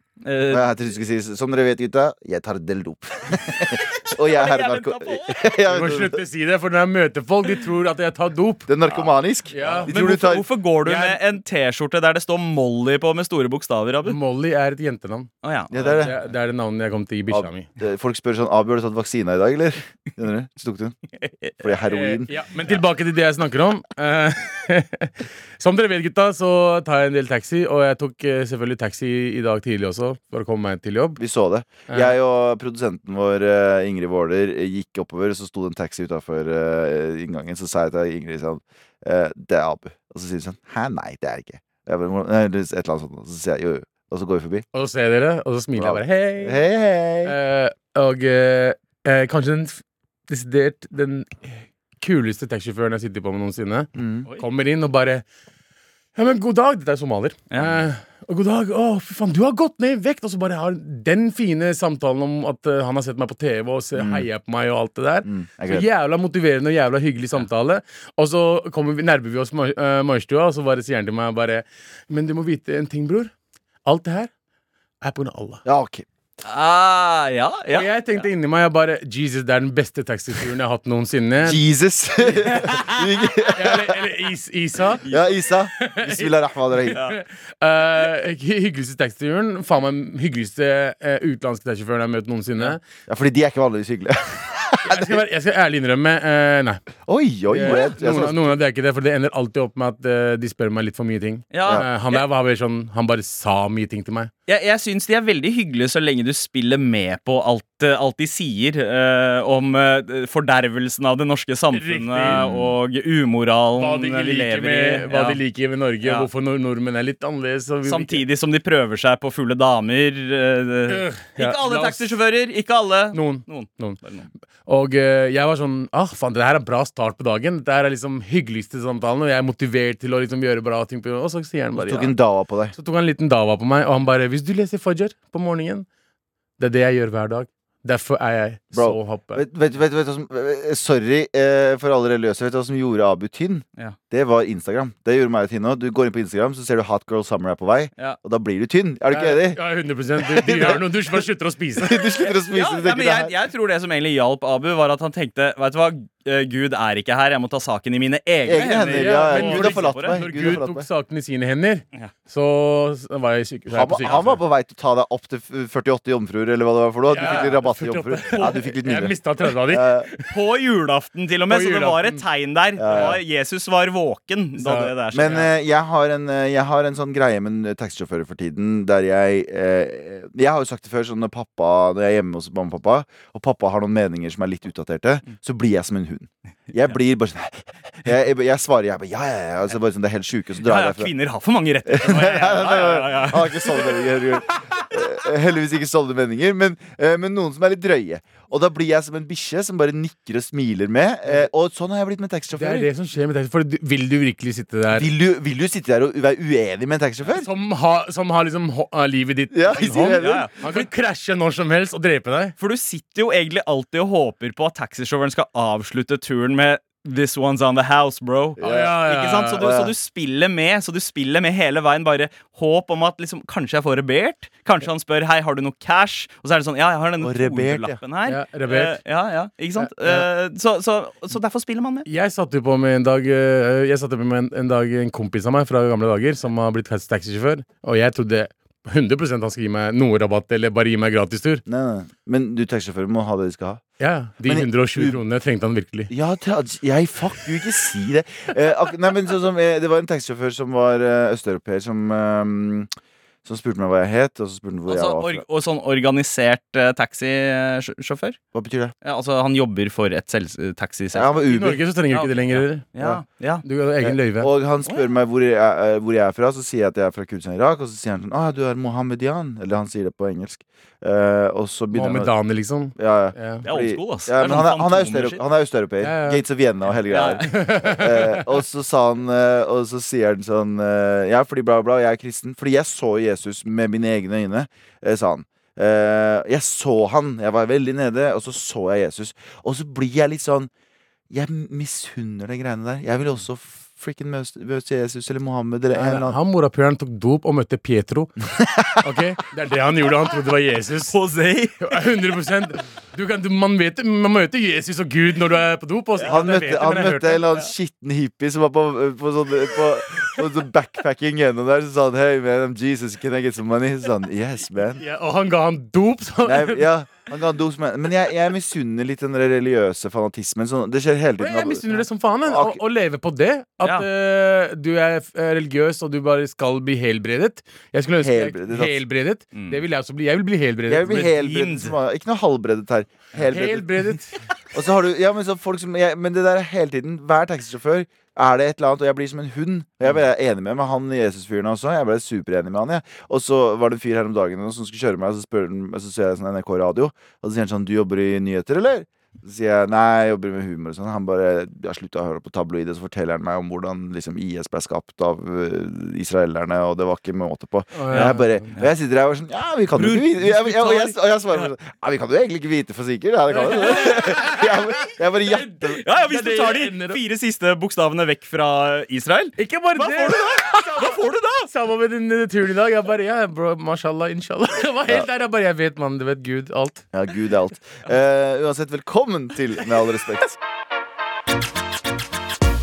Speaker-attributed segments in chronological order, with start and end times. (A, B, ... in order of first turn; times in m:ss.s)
0:00.2-0:00.7 A
0:00.5-0:06.2 B
0:04.2-0:05.4 A
0:05.6-0:08.7 C
0:08.7-0:10.5 B
0:09.5-0:09.9 C
0:09.8-0:14.2 A
0:10.8-0:11.2 C
0:14.0-0:15.3 C
0:15.4-0:16.2 A
0:15.7-0:16.2 B
0:15.9-0:17.7 C
0:17.3-0:21.0 B
0:21.6-0:22.3 B
0:21.8-0:31.2 C
0:31.2-0:44.6 B
0:31.9-0:32.2 C
0:44.7-0:46.6 C
0:45.8-0:47.3 B
0:47.2-0:55.2 C
0:53.9-0:54.3 B
0:56.2-1:13.3 C
1:03.9-1:04.2 B
1:05.2-1:05.8 B
1:13.8-1:14.3 C
1:15.0-1:15.6 C
1:15.6-1:16.0 B
1:16.4-1:18.2 A
1:17.7-1:21.6 C
1:21.4-1:24.0 B
1:22.4-1:23.0 C
1:23.5-1:25.0 C
1:25.0-1:25.4 A
1:25.0-1:27.0 B
1:25.8-1:32.8 C
1:33.1-1:35.2 B
1:34.8-1:36.8 C
1:37.1-1:38.5 B
1:37.5-1:44.3 C
1:37.6-1:37.9 A
1:41.5-1:42.2 A
1:44.5-1:55.4 A
1:51.7-1:52.4 C
1:52.3-1:52.7 B
1:53.8-1:58.2 C
1:57.8-2:04.3 A
2:00.9-2:02.2 C
2:03.1-2:04.0 C
2:04.6-2:12.1 C
2:11.8-2:12.7 B
2:12.7-2:15.8 C
2:16.6-2:19.4 C
2:18.7-2:29.6 B
2:29.1-2:32.0 C
2:30.2-2:31.2 B
2:31.8-2:33.3 B
2:32.5-2:40.2 A
2:38.4-2:40.9 B
2:38.9-2:44.2 C
2:43.7-2:50.1 B
2:44.0-2:44.4 A
2:47.1-2:50.3 C
2:50.3-2:55.5 A
2:51.5-2:52.2 C
2:52.8-2:53.2 B
2:52.9-2:53.2 C
2:54.6-2:54.9 C
2:55.1-3:11.1 B
3:10.6-3:14.2 A
3:11.8-3:22.9 B
3:22.6-3:25.1 C
3:24.9-3:27.5 B
3:27.3-3:32.5 C
3:29.5-3:30.5 B
3:30.2-3:30.8 A
3:32.6-3:52.1 A
3:38.6-3:39.0 B
3:38.6-3:39.6 C
3:39.6-3:39.9 B
3:47.2-3:48.0 B
3:48.2-3:49.0 C
3:49.8-3:50.2 C
3:52.0-4:01.6 C
4:01.6-4:03.8 B
4:04.0-4:06.1 C
4:04.4-4:05.2 B
4:06.1-4:12.9 B
4:13.4-4:15.4 B
4:14.9-4:18.4 A
4:18.5-4:18.9 B
4:19.0-4:21.4 A
4:21.1-4:21.8 B
4:21.5-4:22.8 C
4:22.1-4:23.6 A
4:23.6-4:24.5 C
4:24.0-4:32.3 B
4:24.8-4:25.1 A
4:31.9-4:33.6 C
4:33.0-4:50.7 B
4:33.6-4:35.4 A
4:36.0-4:36.4 C
4:37.1-4:37.5 A
4:37.4-4:38.4 C
4:51.3-4:56.4 B
4:55.9-4:58.3 C
4:58.6-4:59.0 B
4:59.0-5:01.1 C
5:01.1-5:01.8 A
5:01.8-5:07.7 C
5:06.2-5:15.0 B
5:15.0-5:16.9 C
5:16.4-5:21.9 B
5:21.4-5:31.3 C
5:22.4-5:22.8 B
5:28.2-5:29.0 B
5:29.5-5:29.8 A
5:30.9-5:33.9 B
5:31.2-5:31.9 A
5:33.5-5:34.4 C
5:34.7-6:06.0 B
5:57.9-5:58.7 C
5:58.1-5:58.9 A
5:59.9-6:01.7 A
6:03.5-6:07.2 C
6:03.9-6:04.2 A
6:05.9-6:11.7 A
6:09.6-6:11.1 C
6:11.7-6:17.0 C
6:17.1-6:20.6 B